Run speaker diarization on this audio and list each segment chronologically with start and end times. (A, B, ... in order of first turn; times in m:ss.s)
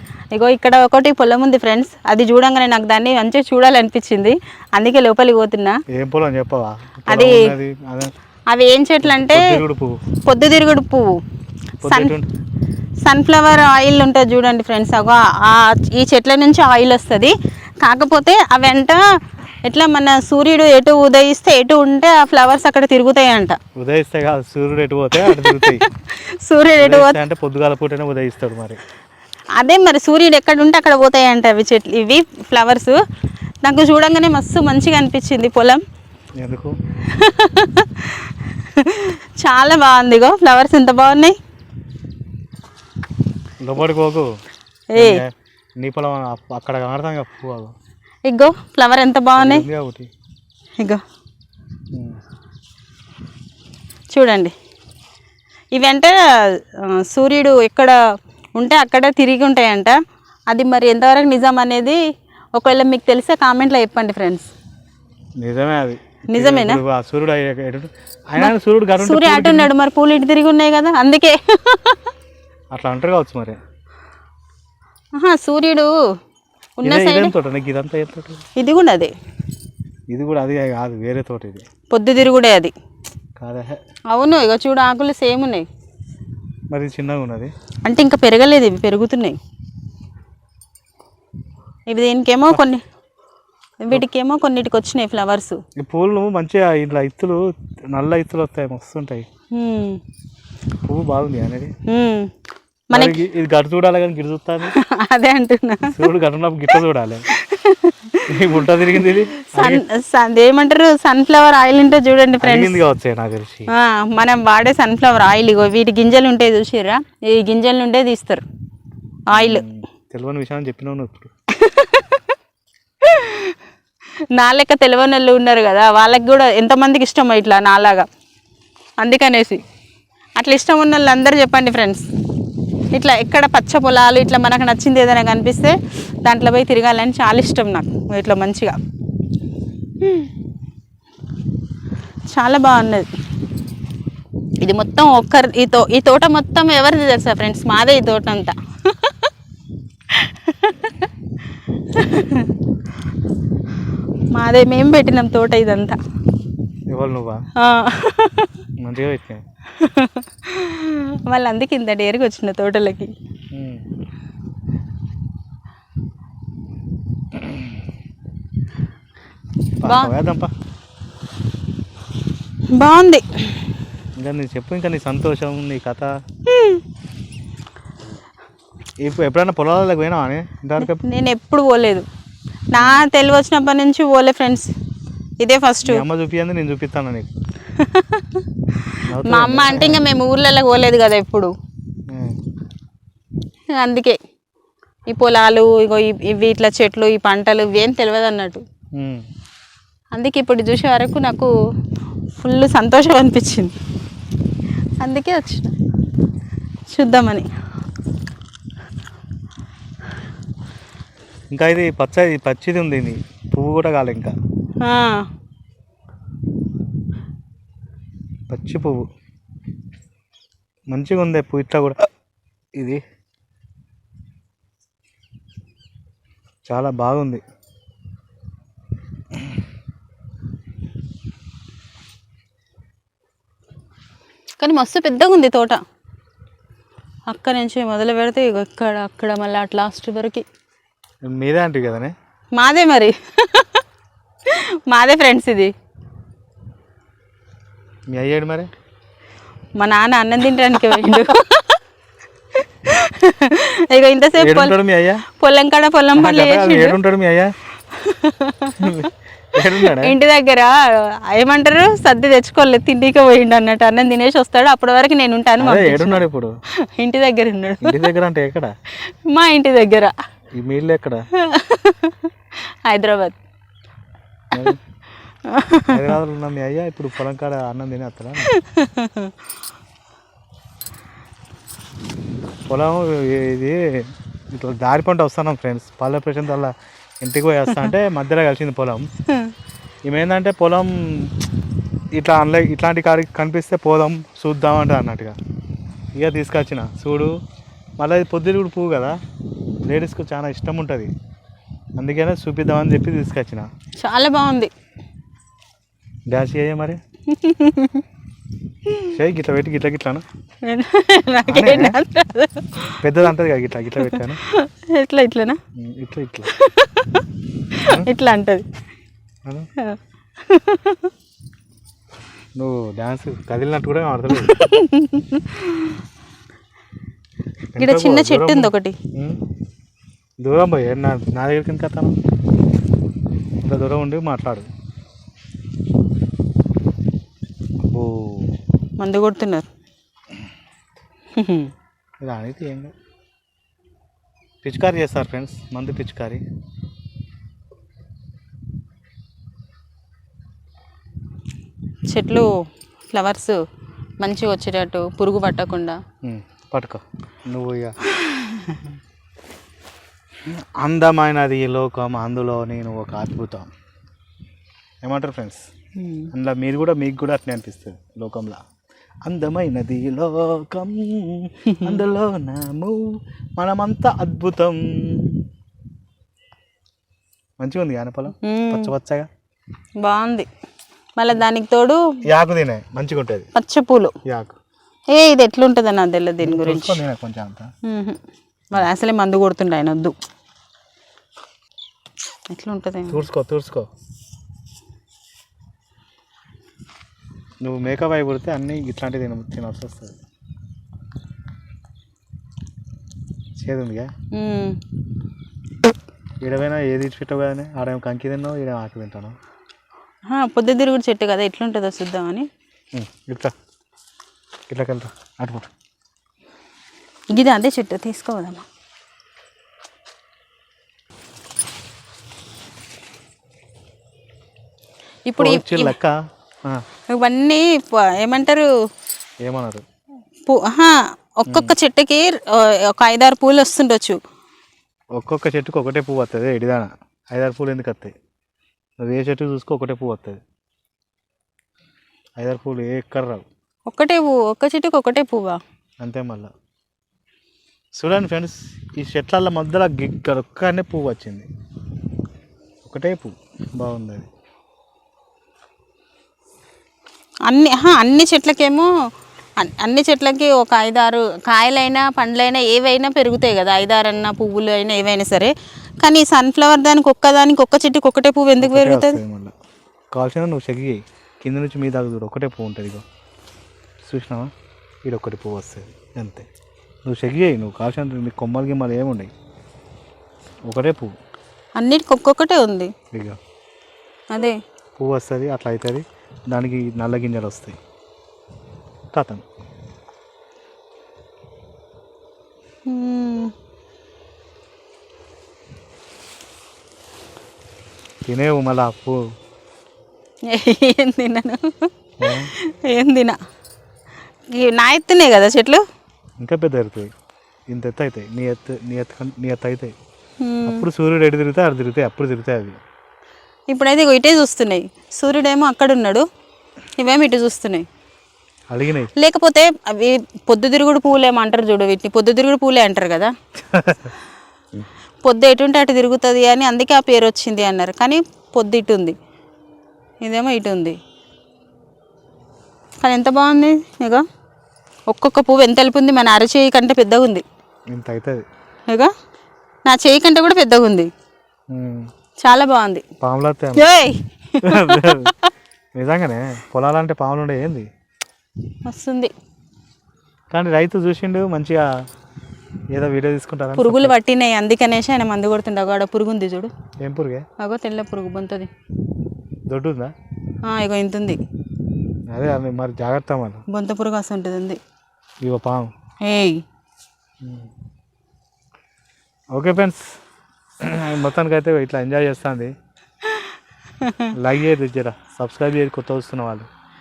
0:00.3-0:05.8 A
0:05.9-0:08.1 B
0:07.1-0:07.5 A
0:08.5-0:09.6 A
0:09.0-0:10.0 B
0:10.2-0:11.2 A
0:11.8-0:12.3 B
0:11.8-0:12.1 A
0:13.0-0:19.0 A
0:19.6-0:23.6 A
0:23.8-0:25.8 B
0:25.2-0:27.2 A
0:26.8-0:28.8 B
0:29.6-0:33.0 A
0:33.6-0:35.8 A
0:36.4-0:36.8 B
0:37.1-0:41.4 A
0:43.6-0:44.3 B
0:44.9-0:45.2 A
0:44.9-0:47.7 B
0:48.2-0:49.6 A
0:49.4-0:50.1 B
0:51.9-0:52.2 B
0:54.1-0:54.5 A
0:55.7-0:58.0 A
0:58.6-1:00.0 A
1:00.5-1:02.0 A
1:02.5-1:04.5 A
1:05.4-1:09.7 B
1:06.3-1:06.8 A
1:08.4-1:12.0 A
1:12.7-1:13.6 B
1:15.2-1:15.9 A
1:16.8-1:17.3 A
1:16.8-1:18.4 B
1:18.6-1:19.1 A
1:20.1-1:21.6 B
1:21.9-1:22.7 A
1:23.4-1:23.8 B
1:24.1-1:25.6 A
1:26.7-1:27.5 B
1:27.8-1:29.4 A
1:31.9-1:32.8 A
1:33.8-1:35.6 A
1:35.8-1:39.3 B
1:39.5-1:40.0 A
1:40.8-1:41.7 B
1:41.8-1:42.3 A
1:42.9-1:43.2 A
1:42.9-1:44.7 B
1:44.7-1:46.0 A
1:45.9-1:47.2 B
1:47.3-1:52.8 A
1:48.3-1:49.8 B
1:52.4-1:53.7 B
1:53.7-1:58.4 A
1:59.3-1:59.6 A
1:59.3-2:01.3 B
2:01.5-2:02.3 A
2:03.0-2:03.6 A
2:04.3-2:08.1 A
2:09.0-2:09.6 A
2:10.4-2:12.0 A
2:12.9-2:18.8 A
2:20.0-2:20.3 A
2:22.3-2:23.1 A
2:24.6-2:29.3 A
2:30.1-2:31.1 A
2:31.9-2:32.5 A
2:34.3-2:36.0 A
2:36.9-2:37.4 B
2:37.6-2:38.5 A
2:38.8-2:39.4 B
2:39.8-2:43.1 A
2:43.5-2:43.8 B
2:47.3-2:47.7 B
2:49.8-2:50.5 B
2:49.8-2:50.1 A
2:52.7-2:53.7 A
2:54.2-2:56.1 B
2:56.5-2:56.8 A
2:59.0-3:01.0 B
3:00.8-3:02.0 A
3:02.7-3:04.7 A
3:02.8-3:03.0 B
3:05.4-3:06.0 A
3:05.8-3:07.3 B
3:07.8-3:11.5 A
3:09.1-3:10.0 B
3:12.1-3:12.4 B
3:13.7-3:14.2 A
3:15.1-3:18.6 A
3:19.0-3:19.2 B
3:20.1-3:21.5 A
3:22.4-3:23.7 A
3:25.0-3:25.7 A
3:26.9-3:27.5 A
3:31.5-3:34.3 B
3:34.8-3:35.2 A
3:38.5-3:39.0 B
3:40.9-3:42.0 B
3:42.8-3:43.0 B
3:46.7-3:47.4 B
3:54.6-3:55.8 A
3:57.3-4:00.4 A
4:01.2-4:02.1 B
4:02.6-4:03.8 A
4:04.5-4:05.7 A
4:08.1-4:08.7 B
4:09.8-4:11.8 A
4:12.8-4:14.7 A
4:14.4-4:15.2 B
4:15.3-4:17.0 A
4:16.2-4:17.5 B
4:17.9-4:18.9 A
4:18.8-4:20.1 B
4:19.7-4:20.7 A
4:21.2-4:26.2 A
4:25.6-4:26.6 B
4:26.9-4:28.1 A
4:27.8-4:28.7 B
4:29.2-4:30.1 A
4:30.6-4:31.2 B
4:31.4-4:32.3 A
4:32.9-4:33.4 A
4:34.5-4:34.8 B
4:35.5-4:36.1 A
4:35.9-4:38.5 B
4:38.4-4:39.3 A
4:42.7-4:49.1 B
4:50.1-4:51.3 B
4:52.2-4:55.4 B
4:56.2-4:57.4 B
4:58.0-4:59.2 B
4:59.8-5:01.1 B
5:02.0-5:03.7 B
5:04.0-5:04.7 A
5:06.3-5:07.0 B
5:07.3-5:08.0 A
5:09.1-5:10.2 B
5:10.6-5:13.0 A
5:11.5-5:12.0 B
5:13.0-5:14.4 B
5:14.0-5:15.6 A
5:15.7-5:16.5 B
5:16.5-5:18.6 A
5:19.8-5:21.1 A
5:22.6-5:24.5 B
5:24.3-5:26.0 A
5:27.7-5:29.4 B
5:27.8-5:29.0 A
5:30.4-5:32.2 B
5:33.6-5:34.7 B
5:37.9-5:38.5 B
5:39.0-5:39.7 A
5:41.4-5:41.7 A
5:42.2-5:42.9 B
5:44.6-5:46.4 B
5:52.1-5:52.5 A
5:53.1-5:53.6 A
5:54.2-5:56.0 A
5:56.2-5:58.0 B
5:58.2-5:58.8 A
6:00.4-6:03.7 B
6:05.0-6:05.6 B
6:06.0-6:06.3 A
6:06.3-6:08.6 B
6:09.2-6:15.4 B
6:11.7-6:12.0 A
6:17.6-6:19.3 B
6:18.4-6:18.9 A
6:20.0-6:20.5 A
6:21.2-6:22.0 A
6:22.3-6:23.5 B
6:23.5-6:24.1 A
6:24.2-6:24.6 B
6:25.1-6:27.0 A
6:26.4-6:27.7 B
6:27.9-6:28.2 A
6:28.7-6:30.1 A
6:32.5-6:33.2 A
6:33.1-6:33.9 B
6:37.6-6:40.2 B
6:43.6-6:44.1 B
6:44.3-6:44.8 A
6:46.4-6:49.4 B
6:50.3-6:52.5 A
6:52.9-6:53.5 B
6:54.7-6:55.7 B
6:57.3-6:58.6 A
7:05.2-7:05.9 A
7:05.4-7:06.8 B
7:07.1-7:08.7 A
7:09.4-7:09.8 B
7:10.4-7:14.2 A
7:11.5-7:11.7 B
7:15.1-7:18.1 B
7:19.0-7:20.4 B
7:22.4-7:23.4 B
7:23.9-7:25.6 A
7:26.0-7:26.5 B
7:28.0-7:31.5 B
7:32.8-7:34.3 B
7:37.5-7:38.9 A
7:39.6-7:49.2 A
7:48.6-7:49.5 B
7:50.1-7:53.0 B
7:54.0-7:54.5 B
7:55.0-7:56.5 B
7:57.0-7:59.3 B
8:00.7-8:01.1 B
8:01.8-8:02.9 A
8:03.1-8:03.4 B
8:04.3-8:04.6 A
8:05.0-8:07.8 B
8:09.1-8:09.4 B
8:12.8-8:13.5 A
8:18.2-8:19.2 B
8:20.5-8:21.9 A
8:22.2-8:22.5 B
8:22.5-8:23.4 A
8:24.5-8:25.8 A
8:26.4-8:27.1 B
8:27.7-8:29.9 B
8:30.4-8:30.8 A
8:30.7-8:32.8 B
8:33.7-8:36.2 A
8:37.0-8:37.8 A
8:38.7-8:39.1 B
8:39.2-8:43.3 A
8:43.7-8:44.1 B
8:45.2-8:49.2 A
8:50.2-8:51.0 A
8:53.0-8:54.2 A
8:55.1-8:57.4 A
8:57.9-8:58.4 B
8:59.8-9:01.1 A
9:01.7-9:02.1 B
9:02.4-9:03.0 A
9:03.2-9:03.9 B
9:03.7-9:05.3 A
9:04.6-9:05.3 B
9:05.9-9:07.9 B
9:08.8-9:09.3 A
9:10.5-9:11.8 B
9:12.9-9:14.1 B
9:13.8-9:16.7 A
9:17.0-9:17.4 B
9:17.6-9:18.7 A
9:19.7-9:20.1 B
9:20.6-9:21.4 A
9:22.3-9:23.6 B
9:23.7-9:24.8 A
9:25.4-9:25.9 B
9:26.2-9:26.6 A
9:27.4-9:27.7 B
9:29.5-9:30.0 B
9:30.8-9:32.7 B
9:34.0-9:34.3 A
9:34.3-9:36.7 B